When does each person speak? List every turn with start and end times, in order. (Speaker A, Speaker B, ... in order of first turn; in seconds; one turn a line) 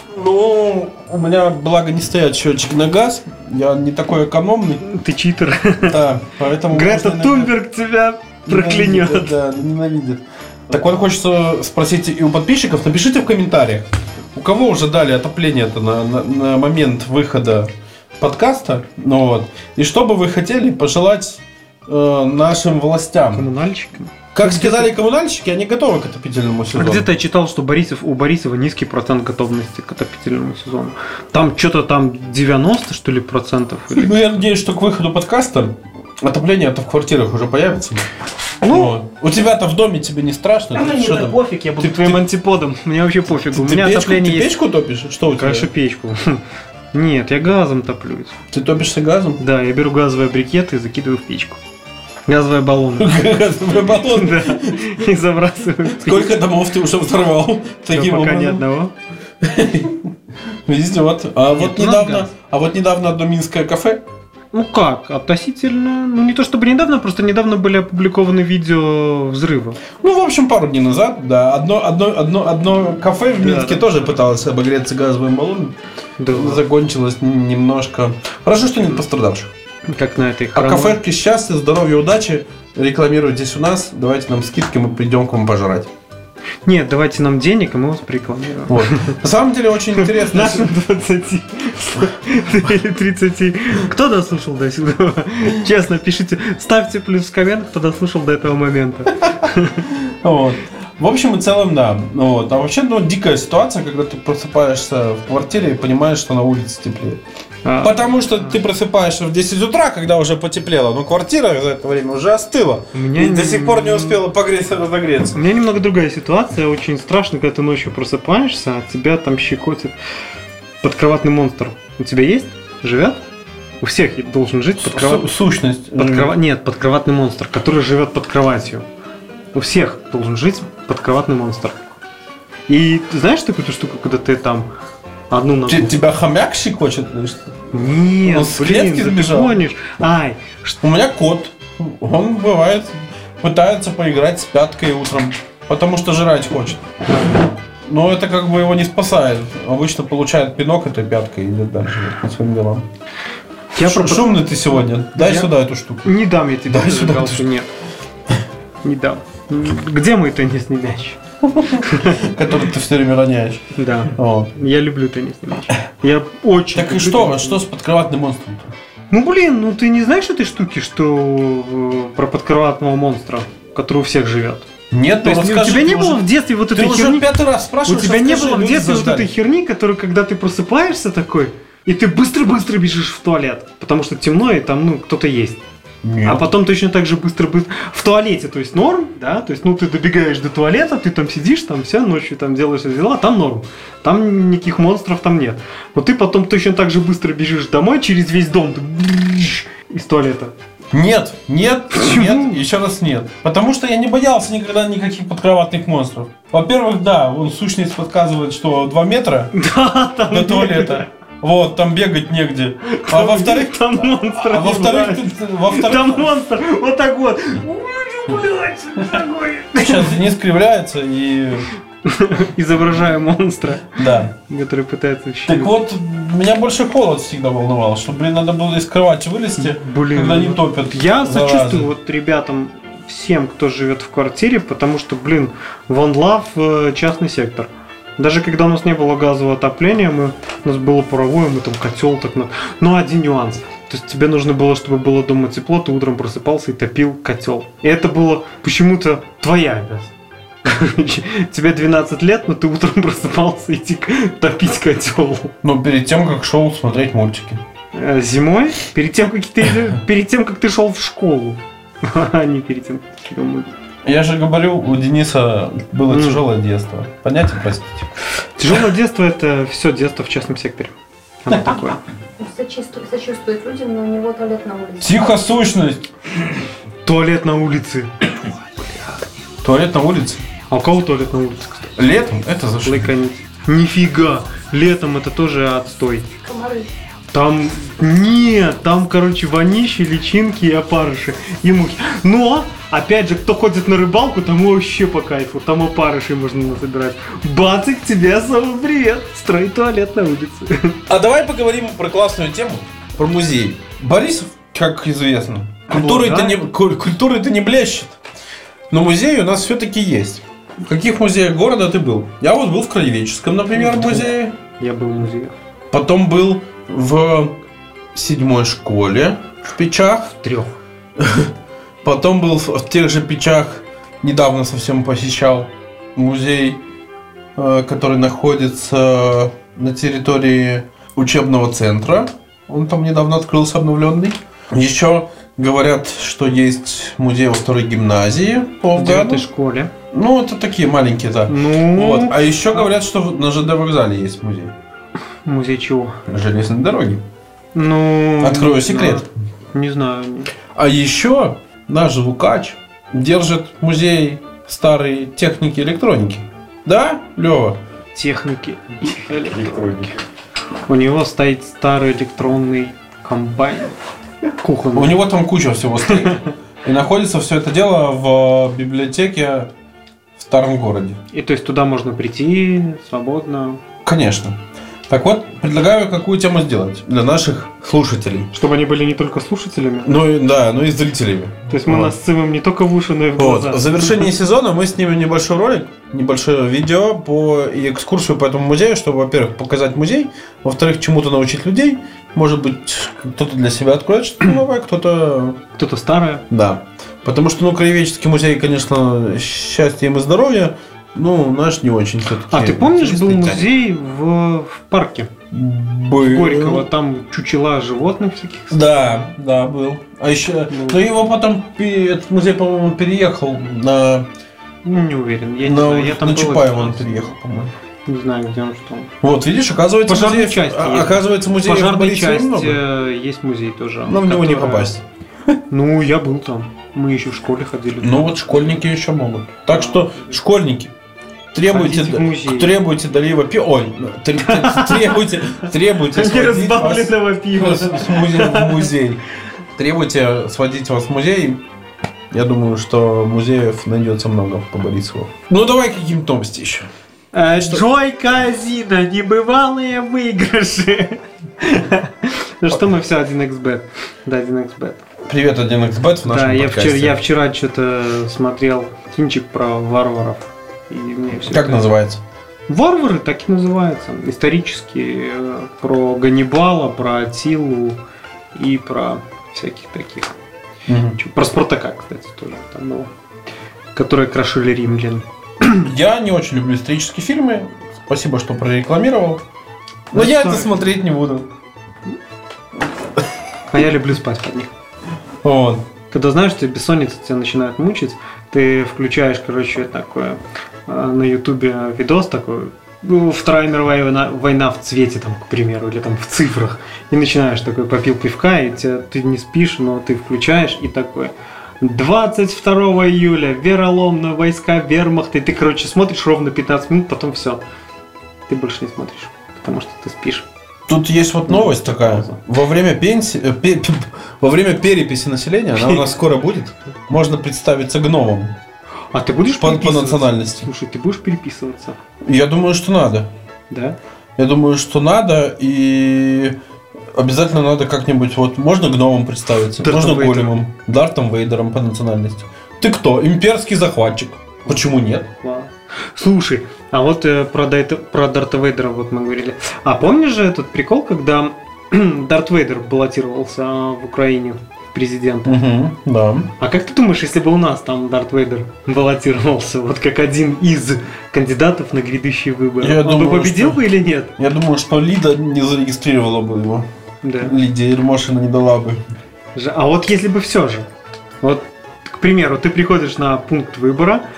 Speaker A: 0.1-4.8
Speaker B: 4.8-6.0
Speaker A: 5.8-7.5
Speaker B: 6.7-9.3
Speaker A: 8.4-23.5
Speaker B: 23.3-24.9
Speaker A: 24.3-27.1
Speaker B: 26.7-34.3
Speaker A: 33.9-38.1
Speaker B: 38.6-39.0
Speaker A: 38.7-42.2
Speaker B: 40.7-44.5
Speaker A: 43.5-45.7
Speaker B: 45.4-48.4
Speaker A: 48.5-49.4
Speaker B: 49.4-51.6
Speaker B: 52.3-53.2
Speaker A: 53.0-55.0
Speaker B: 54.0-56.4
Speaker A: 55.9-58.6
Speaker B: 57.9-58.9
Speaker A: 59.4-60.1
Speaker A: 60.6-64.0
Speaker B: 61.5-62.3
Speaker B: 64.5-69.8
Speaker A: 69.9-75.8
Speaker B: 73.4-73.9
Speaker B: 76.2-76.6
Speaker A: 76.3-79.5
Speaker B: 79.9-81.0
Speaker A: 80.5-85.9
Speaker B: 86.6-89.1
Speaker A: 88.7-90.7
Speaker B: 90.0-99.9
Speaker A: 99.9-107.2
Speaker B: 107.6-108.5
Speaker A: 107.8-115.4
Speaker B: 112.9-114.2
Speaker B: 115.3-119.9
Speaker B: 120.8-123.2
Speaker B: 123.8-125.3
Speaker A: 124.8-126.3
Speaker B: 125.9-128.8
Speaker B: 129.5-131.8
Speaker B: 132.7-134.7
Speaker B: 135.3-136.0
Speaker A: 135.7-137.6
Speaker B: 137.7-140.8
Speaker A: 138.2-139.6
Speaker A: 140.8-146.9
Speaker A: 147.8-152.9
Speaker B: 153.7-154.5
Speaker A: 153.8-156.1
Speaker B: 155.1-155.5
Speaker B: 156.0-157.7
Speaker A: 156.7-157.5
Speaker B: 158.8-162.2
Speaker A: 161.4-164.5
Speaker B: 163.7-167.6
Speaker A: 166.7-168.7
Speaker B: 169.1-174.7
Speaker A: 174.9-179.3
Speaker B: 175.2-177.3
Speaker B: 177.8-185.6
Speaker A: 186.0-186.5
Speaker B: 186.2-200.5
Speaker A: 200.9-209.5
Speaker B: 201.9-202.6
Speaker B: 209.5-211.1
Speaker A: 210.3-216.3
Speaker B: 212.9-220.2
Speaker A: 219.7-221.7
Speaker B: 222.0-225.7
Speaker A: 223.9-224.3
Speaker A: 225.4-231.9
Speaker B: 229.6-250.1
Speaker B: 250.6-255.5
Speaker A: 255.6-257.6
Speaker B: 257.9-263.7
Speaker A: 264.0-268.1
Speaker B: 266.1-266.4
Speaker B: 268.6-272.0
Speaker C: 272.4-275.2
Speaker A: 275.0-276.0
Speaker B: 277.0-278.1
Speaker A: 279.6-280.4
Speaker B: 280.7-282.0
Speaker A: 282.0-283.1
Speaker B: 282.8-286.3
Speaker C: 286.4-286.9
Speaker B: 287.3-301.0
Speaker A: 301.1-308.2
Speaker B: 305.9-306.6
Speaker A: 308.9-314.6
Speaker B: 313.7-315.5
Speaker A: 315.9-317.6
Speaker A: 318.1-320.3
Speaker B: 320.3-320.8
Speaker A: 321.2-326.8
Speaker A: 327.6-339.4
Speaker B: 338.9-339.9
Speaker A: 340.1-344.7
Speaker B: 341.5-342.9
Speaker B: 345.4-346.2
Speaker A: 346.3-347.2
Speaker B: 347.7-350.5
Speaker A: 348.4-349.3
Speaker A: 350.7-357.8
Speaker B: 358.1-360.2
Speaker B: 360.9-363.9
Speaker B: 364.6-365.2
Speaker A: 364.9-369.7
Speaker B: 366.1-366.5
Speaker A: 370.4-371.2
Speaker B: 371.3-373.8
Speaker A: 374.0-378.5
Speaker B: 378.5-380.1
Speaker A: 380.0-382.1
Speaker B: 381.7-384.3
Speaker A: 383.4-395.6
Speaker B: 395.8-396.4
Speaker A: 396.5-403.7
Speaker B: 402.5-405.3
Speaker A: 405.5-406.9
Speaker B: 406.2-409.0
Speaker A: 408.7-414.3
Speaker B: 410.7-411.1
Speaker B: 414.8-417.3
Speaker A: 415.6-417.7
Speaker B: 418.1-419.1
Speaker A: 419.2-422.8
Speaker B: 420.1-424.9
Speaker A: 424.1-425.5
Speaker B: 425.7-428.8
Speaker A: 428.0-430.9
Speaker B: 429.7-430.4
Speaker A: 431.5-439.2
Speaker B: 431.6-432.7
Speaker B: 434.4-435.2
Speaker B: 436.1-438.9
Speaker A: 439.8-441.6
Speaker A: 442.3-446.9
Speaker B: 447.3-455.0
Speaker A: 455.2-457.2
Speaker B: 456.2-461.9
Speaker A: 461.5-462.2
Speaker B: 462.7-468.0
Speaker B: 468.5-470.3
Speaker A: 470.9-471.2
Speaker B: 471.2-473.1
Speaker B: 473.9-475.9
Speaker A: 475.8-479.4
Speaker A: 480.1-481.5
Speaker B: 480.1-480.9
Speaker B: 483.7-484.7
Speaker A: 485.4-485.9
Speaker B: 486.1-507.6
Speaker B: 508.5-510.4
Speaker A: 510.9-518.6
Speaker B: 511.5-512.4
Speaker B: 515.7-516.1
Speaker B: 519.1-522.0
Speaker A: 519.5-520.7
Speaker A: 522.2-523.3
Speaker B: 523.7-524.0
Speaker A: 524.4-526.6
Speaker A: 527.1-535.3
Speaker B: 529.8-530.6
Speaker B: 535.3-545.6
Speaker A: 545.4-546.5
Speaker B: 546.6-554.3
Speaker A: 552.8-553.9
Speaker A: 554.4-556.9
Speaker B: 557.2-557.5
Speaker A: 557.4-559.0
Speaker B: 559.5-560.9
Speaker B: 561.4-564.2